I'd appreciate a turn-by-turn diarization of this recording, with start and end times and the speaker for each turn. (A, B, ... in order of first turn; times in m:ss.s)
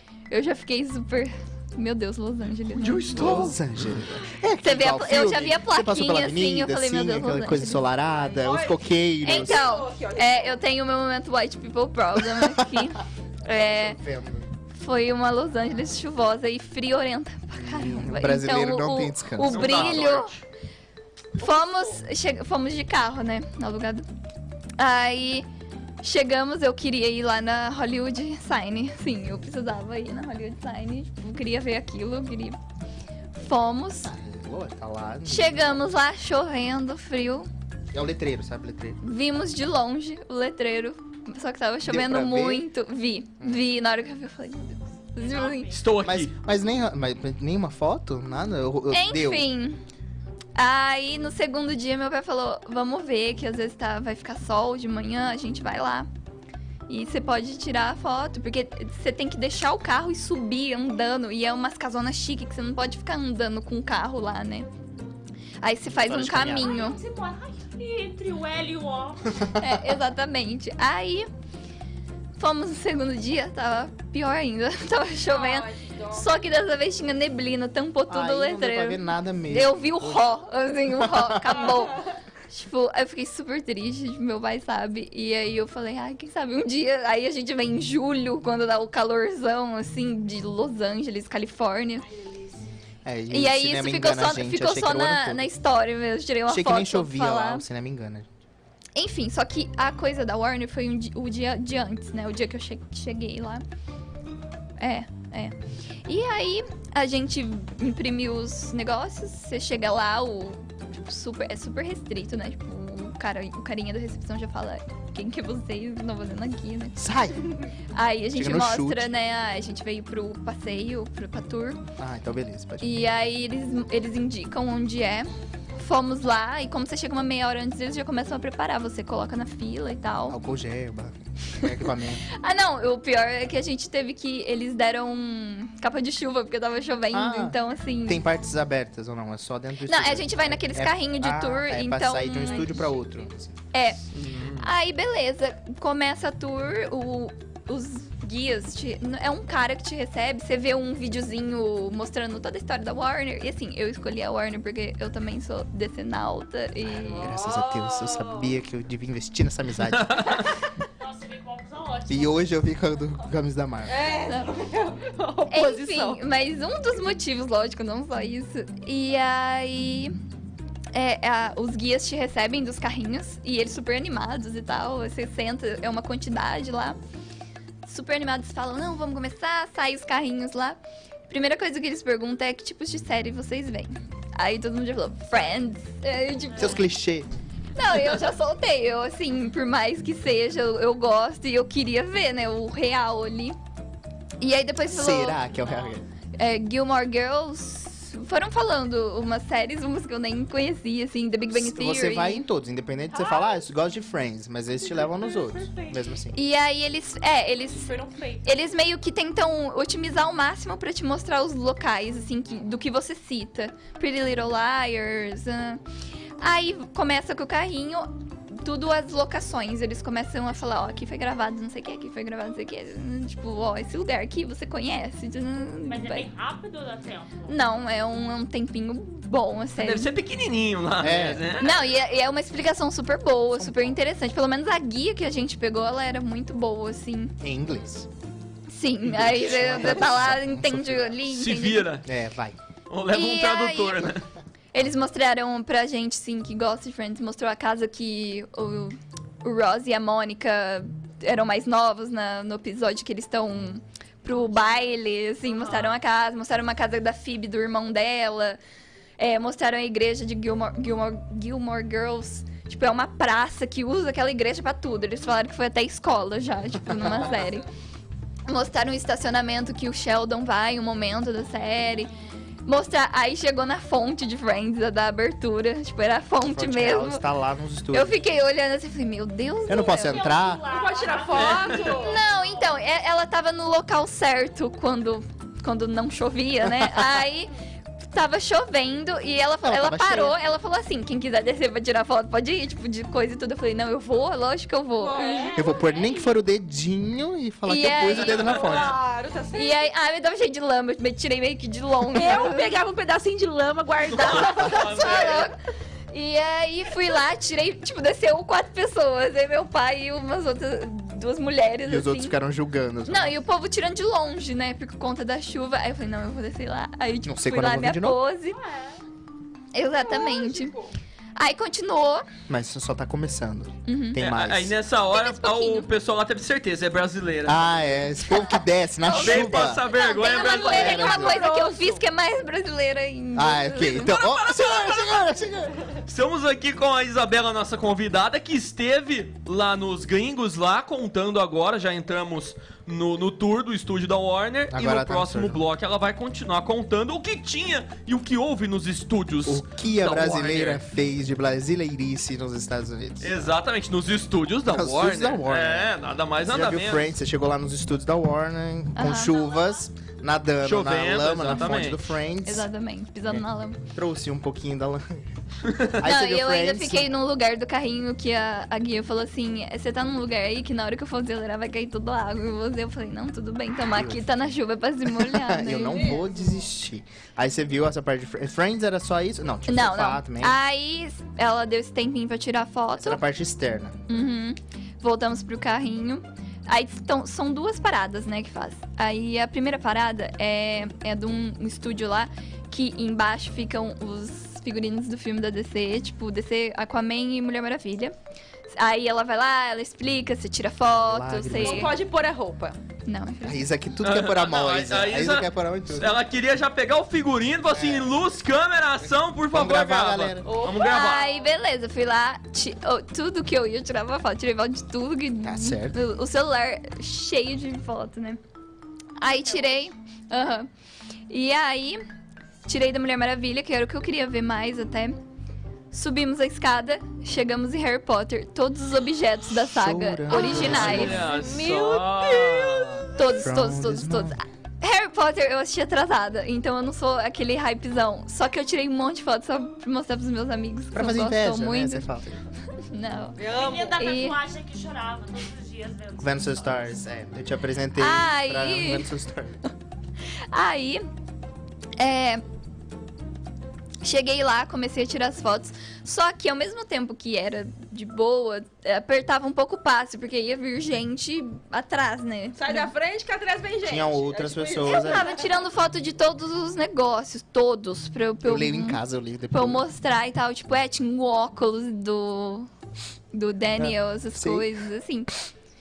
0:00.3-0:03.5 A
0:02.7-0:04.0 B
0:03.1-0:09.6 C
0:04.6-0:07.8 A
0:08.0-0:10.6 D
0:09.2-0:14.0 A
0:12.2-0:12.9 C
0:13.5-0:14.5 C
0:14.7-0:20.3 A
0:17.5-0:20.0 C
0:19.4-0:20.4 B
0:21.4-0:22.0 D
0:21.4-0:24.0 A
0:24.8-0:25.4 A
0:26.0-0:32.6 A
0:33.3-0:34.1 A
0:34.0-0:35.9 C
0:35.2-0:37.5 A
0:37.9-0:39.0 C
0:39.0-0:45.7 A
0:41.8-0:42.6 C
0:45.2-0:45.8 E
0:45.7-0:46.3 B
0:46.0-0:49.5 C
0:48.9-0:49.8 A
0:50.6-0:56.1 A
0:56.9-1:04.7 A
1:05.6-1:07.0 A
1:05.9-1:06.8 C
1:06.5-1:09.4 E
1:09.6-1:11.3 A
1:12.4-1:32.0 A
1:15.2-1:16.3 D
1:18.1-1:21.6 C
1:32.1-1:32.6 D
1:33.0-1:35.5 C
1:33.3-1:37.6 A
1:36.5-1:38.3 C
1:39.0-1:43.6 A
1:44.8-1:45.5 A
1:46.0-1:57.0 A
1:57.0-1:57.6 C
1:57.9-2:01.8 A
1:58.3-1:59.1 C
2:02.0-2:03.1 C
2:02.8-2:10.4 A
2:10.3-2:12.2 C
2:12.3-2:18.2 A
2:17.1-2:23.5 C
2:19.8-2:22.9 A
2:23.7-2:24.0 A
2:24.1-2:24.7 B
2:24.6-2:37.4 A
2:36.9-2:38.5 D
2:37.2-2:40.5 C
2:40.0-2:40.3 B
2:41.0-2:42.6 E
2:42.1-2:44.0 C
2:43.8-2:46.2 D
2:44.2-2:44.5 A
2:45.5-2:50.1 A
2:50.9-2:57.0 A
2:57.8-3:06.9 A
3:06.5-3:06.9 E
3:06.6-3:07.3 C
3:07.8-3:13.6 A
3:14.4-3:15.4 A
3:14.9-3:16.0 C
3:15.6-3:16.0 E
3:16.4-3:22.5 A
3:21.5-3:26.4 C
3:23.1-3:23.6 D
3:24.8-3:26.0 E
3:26.3-3:35.8 A
3:27.7-3:28.5 E
3:36.4-3:46.3 A
3:45.9-3:47.5 E
3:47.5-3:50.1 A
3:49.8-3:51.9 B
3:51.0-3:51.5 C
3:51.6-3:57.3 A
3:53.5-3:54.0 C
3:57.4-3:58.1 C
3:58.7-4:01.9 A
3:59.0-4:01.2 C
4:01.2-4:02.1 B
4:02.0-4:02.6 C
4:02.9-4:04.2 B
4:03.1-4:04.1 A
4:04.7-4:18.6 A
4:15.5-4:15.9 E
4:19.2-4:27.6 A
4:27.2-4:27.4 D
4:28.5-4:32.1 A
4:32.6-4:37.2 A
4:36.5-4:38.2 C
4:37.9-4:40.2 A
4:39.7-4:40.6 C
4:39.9-4:42.7 E
4:40.7-4:42.2 D
4:41.3-4:42.0 B
4:42.0-4:47.5 A
4:48.1-4:55.5 A
4:49.6-4:50.4 C
4:55.0-4:55.7 D
4:55.1-4:56.4 E
4:55.5-4:59.0 C
4:57.6-4:58.6 A
4:58.2-4:59.0 B
4:58.4-4:59.9 D
4:59.5-5:02.7 A
5:02.1-5:05.5 D
5:04.1-5:05.5 B
5:04.6-5:05.6 A
5:06.1-5:12.4 A
5:11.8-5:13.4 C
5:13.1-5:18.6 A
5:17.2-5:18.2 C
5:18.5-5:19.0 E
5:19.7-5:20.7 A
5:19.9-5:20.9 D
5:21.4-5:22.2 A
5:22.5-5:24.7 C
5:23.9-5:24.2 A
5:24.2-5:27.8 B
5:25.1-5:25.9 A
5:27.4-5:29.8 C
5:28.4-5:34.3 A
5:29.1-5:31.0 B
5:30.3-5:32.0 D
5:30.7-5:31.4 C
5:33.3-5:35.8 C
5:36.0-5:50.8 B
5:44.7-5:45.6 C
5:49.4-5:53.5 C
5:53.2-5:57.1 B
5:54.7-5:55.9 C
5:56.4-6:02.7 C
5:58.9-5:59.6 A
6:00.6-6:02.0 B
6:02.4-6:03.8 A
6:03.3-6:05.2 C
6:05.9-6:07.2 C
6:06.0-6:16.2 A
6:13.9-6:20.6 C
6:15.8-6:16.6 D
6:19.7-6:23.2 A
6:23.0-6:24.0 C
6:24.1-6:38.1 A
6:38.7-6:42.0 A
6:40.9-6:42.0 C
6:41.6-6:42.8 D
6:43.0-6:43.6 A
6:43.4-6:46.2 C
6:44.0-6:51.3 B
6:47.7-6:48.2 C
6:49.0-6:50.5 C
6:50.4-6:51.0 D
6:50.8-6:58.4 A
6:55.4-6:56.0 C
6:59.2-7:00.7 A
7:01.3-7:02.0 A
7:02.7-7:05.2 A
7:05.9-7:11.1 A
7:09.6-7:11.2 C
7:10.3-7:13.0 D
7:10.3-7:13.1 B
7:13.2-7:22.1 A
7:13.3-7:14.4 C
7:20.9-7:22.4 C
7:22.9-7:23.4 A
7:23.4-7:24.0 D
7:23.5-7:26.9 E
7:24.0-7:24.4 A
7:26.2-7:29.6 C
7:28.0-7:29.1 A
7:30.5-7:31.0 A
7:32.0-7:32.4 A
7:34.0-7:42.9 A
7:42.5-7:45.6 D
7:43.8-7:45.3 C
7:44.8-7:52.7 A
7:48.4-7:49.9 C
7:53.3-7:55.3 A
7:53.8-7:54.7 C